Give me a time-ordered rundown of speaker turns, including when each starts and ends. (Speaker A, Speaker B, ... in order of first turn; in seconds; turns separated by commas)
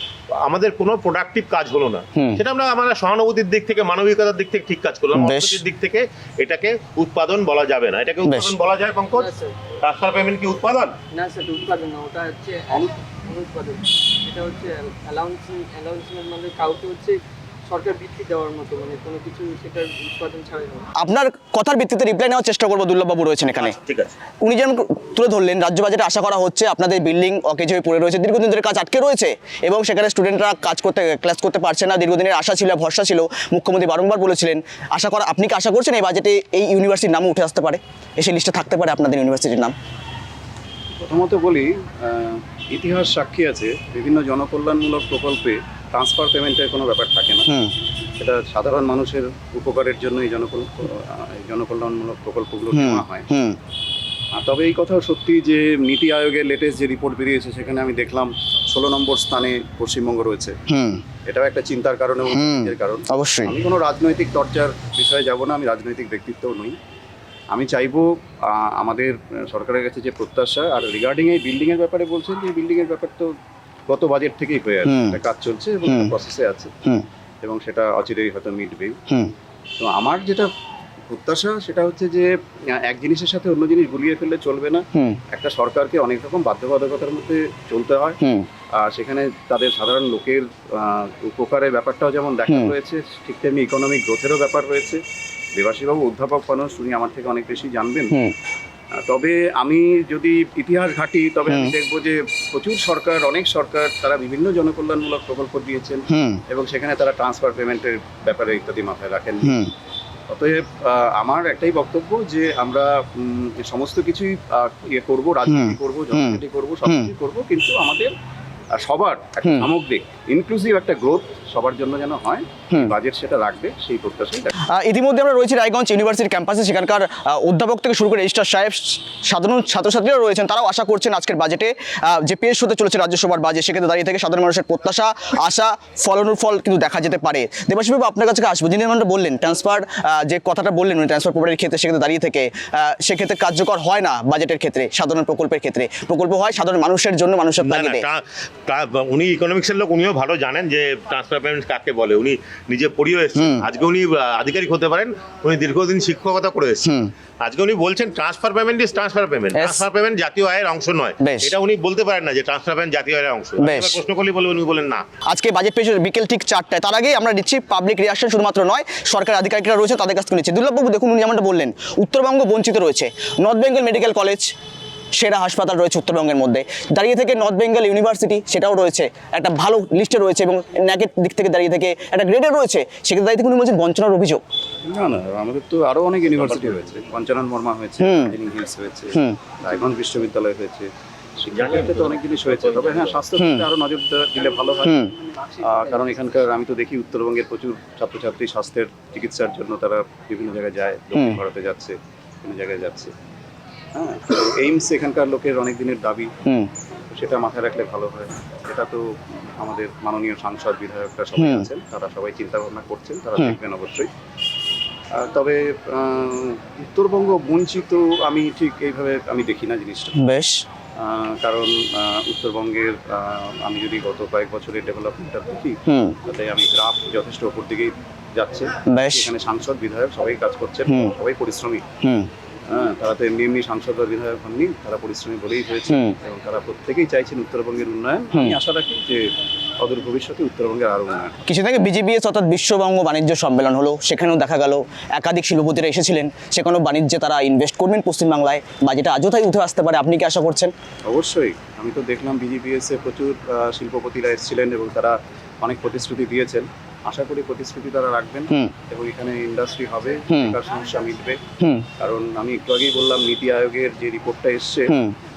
Speaker A: 0.3-11.0, Speaker B: 2.1-2.4, Speaker B: 5.1-5.6, Speaker B: 8.2-8.5, Speaker C: 9.1-9.5, Speaker C: 11.1-20.9, Speaker B: 21.0-23.8, Speaker A: 23.6-24.1, Speaker B: 24.4-39.7, Speaker D: 41.0-47.5, Speaker D: 48.2-53.2, Speaker B: 52.7-53.5, Speaker D: 54.3-60.6, Speaker B: 60.7-61.0, Speaker D: 61.2-66.8, Speaker B: 62.3-63.5, Speaker D: 67.5-73.3, Speaker D: 73.9-76.7, Speaker B: 74.8-75.2, Speaker B: 75.9-76.1, Speaker D: 77.4-79.0, Speaker D: 79.8-80.5, Speaker D: 81.1-88.2, Speaker B: 84.9-85.2, Speaker B: 88.2-88.5, Speaker D: 88.8-95.0, Speaker D: 95.5-98.2, Speaker D: 99.0-109.6, Speaker B: 101.5-101.7, Speaker B: 106.1-106.4, Speaker B: 109.4-109.7, Speaker D: 110.3-118.1, Speaker B: 115.5-117.1, Speaker D: 118.7-124.5, Speaker B: 124.7-148.0, Speaker A: 147.6-165.0, Speaker B: 153.3-153.7, Speaker B: 156.8-157.1, Speaker B: 159.5-159.8, Speaker B: 161.2-161.5, Speaker B: 163.6-164.0, Speaker B: 165.3-174.5, Speaker B: 175.2-184.4, Speaker D: 184.8-203.1, Speaker B: 188.0-188.3, Speaker B: 189.1-189.4, Speaker A: 191.5-193.2, Speaker B: 193.3-193.7, Speaker D: 203.9-206.3, Speaker D: 207.1-209.0, Speaker D: 209.6-214.1, Speaker B: 211.4-211.7, Speaker D: 215.1-220.2, Speaker B: 220.2-220.6, Speaker D: 221.0-231.8, Speaker B: 225.9-226.2, Speaker B: 228.9-229.3, Speaker B: 230.9-231.1, Speaker B: 232.0-232.3, Speaker D: 232.7-241.4, Speaker B: 235.9-236.2, Speaker B: 241.5-250.7, Speaker D: 251.1-261.4, Speaker B: 260.3-260.5, Speaker B: 261.6-261.9, Speaker D: 262.0-264.9